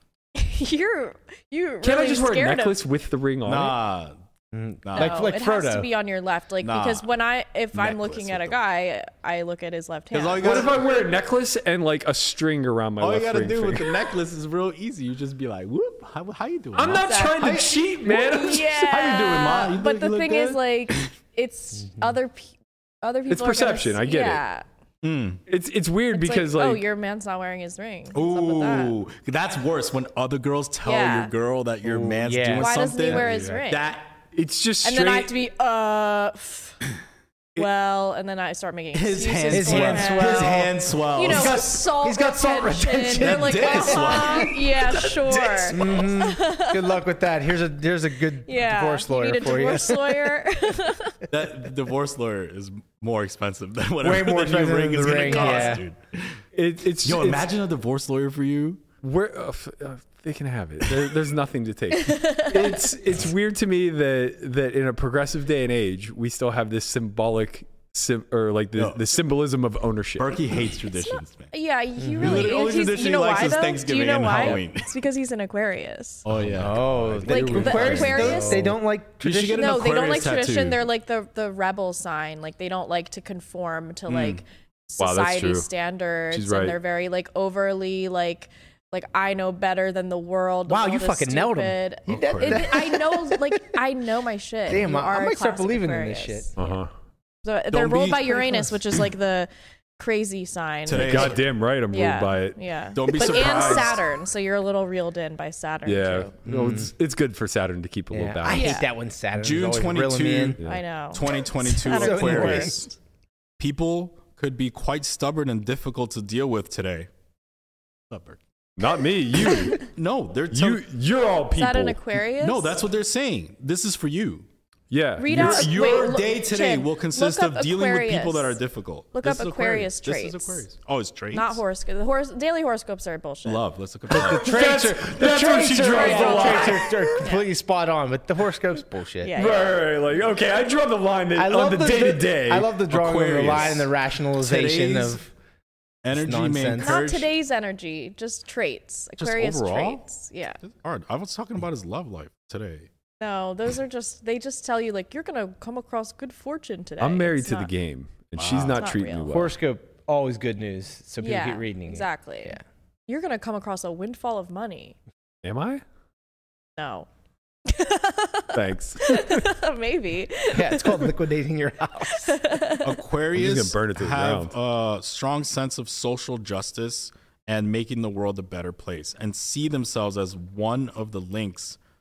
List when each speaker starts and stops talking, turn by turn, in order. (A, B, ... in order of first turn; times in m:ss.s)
0:00.3-0:02.8 A
0:01.8-0:03.8 B
0:03.4-0:04.2 C
0:04.5-0:05.9 D
0:04.8-0:05.3 C
0:05.0-0:10.7 A
0:06.6-0:07.1 C
0:07.7-0:08.6 C
0:10.1-0:10.8 C
0:10.4-0:14.0 B
0:13.0-0:17.7 C
0:16.7-0:19.6 B
0:17.0-0:24.6 A
0:18.9-0:21.1 C
0:23.3-0:24.4 B
0:25.0-0:25.4 C
0:25.5-0:26.8 B
0:26.1-0:28.9 A
0:28.1-0:34.1 C
0:30.8-0:31.3 A
0:31.8-0:33.6 D
0:32.5-0:34.0 A
0:34.3-0:35.3 B
0:34.8-0:36.8 A
0:37.6-0:47.0 A
0:38.9-0:41.7 C
0:39.5-0:44.5 D
0:43.1-0:46.2 C
0:45.7-0:50.4 D
0:48.4-0:51.2 A
0:51.3-0:56.4 C
0:54.0-0:55.8 D
0:55.0-0:55.8 A
0:56.5-0:57.5 B
0:57.0-0:58.8 C
0:59.0-1:10.4 B
1:02.0-1:02.8 A
1:08.8-1:09.0 C
1:10.2-1:11.5 C
1:11.0-1:16.2 A
1:12.0-1:12.5 D
1:12.2-1:14.9 C
1:16.2-1:20.8 C
1:16.3-1:19.7 D
1:17.2-1:18.6 A
1:19.5-1:36.6 A
1:24.1-1:24.4 C
1:25.0-1:25.7 B
1:26.3-1:26.8 B
1:30.7-1:33.6 D
1:32.1-1:32.7 C
1:34.6-1:36.5 D
1:36.6-1:36.9 B
1:37.4-1:41.4 A
1:37.7-1:38.7 C
1:40.8-1:41.4 C
1:40.9-1:42.6 B
1:41.9-1:46.3 A
1:42.9-1:44.0 C
1:43.1-1:43.8 B
1:45.8-1:48.8 B
1:46.5-1:46.9 D
1:48.1-1:50.6 D
1:48.5-1:48.9 A
1:49.3-1:52.9 C
1:50.6-1:53.0 A
1:51.8-1:52.8 D
1:53.6-1:57.1 C
1:58.1-1:58.4 C
1:58.8-1:59.8 B
1:59.8-2:00.8 C
2:00.5-2:02.0 B
2:01.5-2:02.8 A
2:02.4-2:04.4 C
2:04.9-2:05.8 B
2:05.2-2:08.6 A
2:05.3-2:11.6 C
2:09.1-2:10.6 A
2:11.3-2:13.6 A
2:13.4-2:14.7 C
2:14.1-2:17.1 B
2:14.1-2:19.4 D
2:15.9-2:17.5 A
2:19.2-2:19.8 A
2:19.3-2:22.7 B
2:21.3-2:25.2 D
2:22.9-2:25.3 C
2:26.0-2:27.3 C
2:26.1-2:27.0 D
2:26.8-2:30.6 A
2:29.2-2:30.0 C
2:30.6-2:32.9 C
2:33.2-2:37.7 A
2:37.0-2:39.6 B
2:38.4-2:38.8 C
2:38.8-2:39.3 A
2:39.3-2:42.6 D
2:41.2-2:45.0 A
2:45.4-2:45.8 B
2:46.8-2:47.1 A
2:47.6-2:51.1 A
2:48.5-2:49.5 B
2:50.5-2:52.4 D
2:52.2-2:53.0 A
2:52.8-3:01.8 C
2:53.3-2:54.5 B